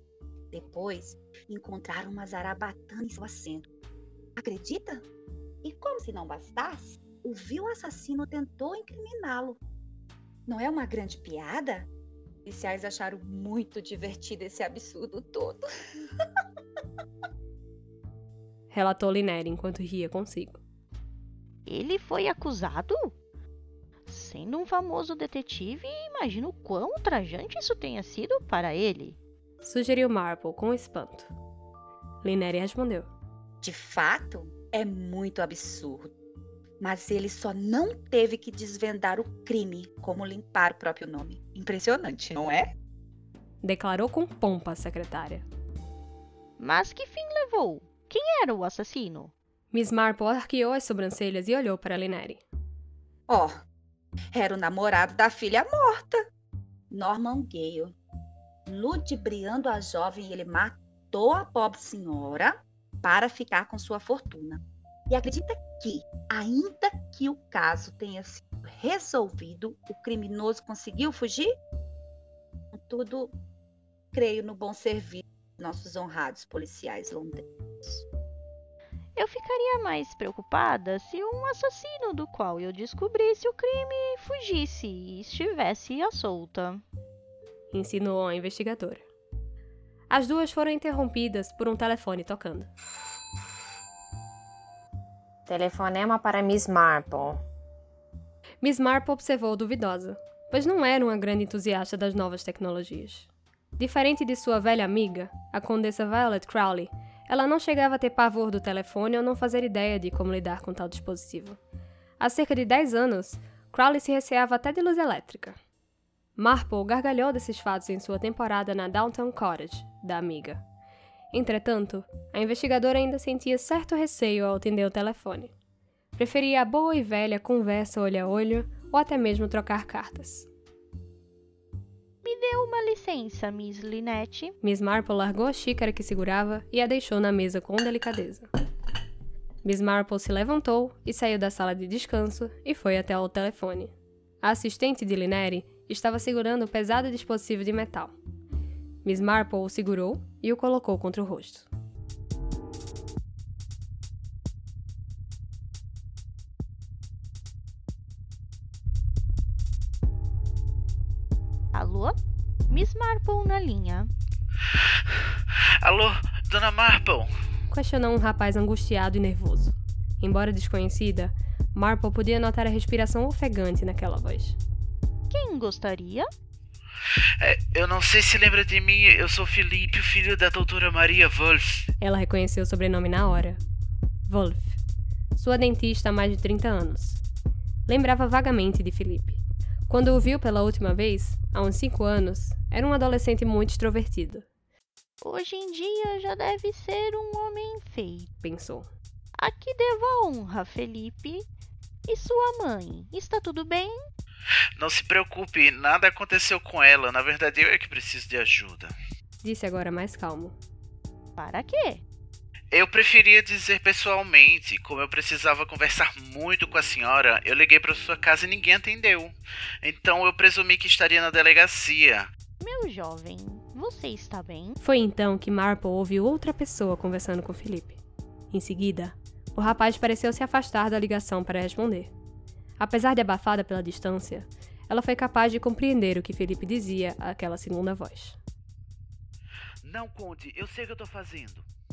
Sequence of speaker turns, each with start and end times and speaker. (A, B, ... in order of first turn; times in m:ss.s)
0:00.5-0:03.7 A
0:04.4-0:05.0 A
0:05.6-0:09.6 A
0:10.4-0:11.9 A
0:12.4-0:15.6 A
0:18.7-0:20.6 B
0:21.6-0:23.1 C
0:24.1-0:29.2 C
0:29.6-0:31.3 B
0:32.2-0:33.1 B
0:33.6-0:36.1 A
0:36.8-0:42.7 A
0:43.6-0:45.4 B
0:46.6-0:49.3 C
0:49.7-0:52.4 B
0:53.3-0:53.6 A
0:54.3-0:56.3 A
0:56.9-0:57.9 A
0:58.7-1:11.6 A
1:12.7-1:13.3 A
1:14.1-1:18.0 A
1:19.2-1:26.8 C
1:27.7-1:29.0 B
1:30.1-1:32.7 B
1:35.5-1:37.4 D
1:38.6-1:51.6 B
1:52.2-1:55.6 B
1:56.4-2:00.6 B
2:01.3-2:05.5 B
2:06.2-2:10.5 B
2:12.2-2:14.5 C
2:14.6-2:18.5 B
2:19.6-2:28.2 B
2:29.0-2:31.7 B
2:41.7-2:42.2 C
2:42.7-2:44.1 C
2:45.8-2:47.3 E
2:47.7-2:54.6 B
2:55.3-2:56.3 C
2:57.4-3:01.8 E
3:02.0-3:03.6 B
3:04.3-3:04.8 B
3:05.3-3:07.2 B
3:07.9-3:14.4 B
3:15.2-3:18.3 C
3:18.4-3:18.9 B
3:19.4-3:21.4 C
3:22.1-3:24.0 C
3:24.8-3:28.9 E
3:29.4-3:30.5 B
3:31.4-3:32.0 C
3:32.7-3:42.3 E
3:42.6-3:44.8 C
3:44.8-3:48.0 B
3:48.5-3:52.1 B
3:52.8-3:58.4 B
3:59.8-4:01.6 E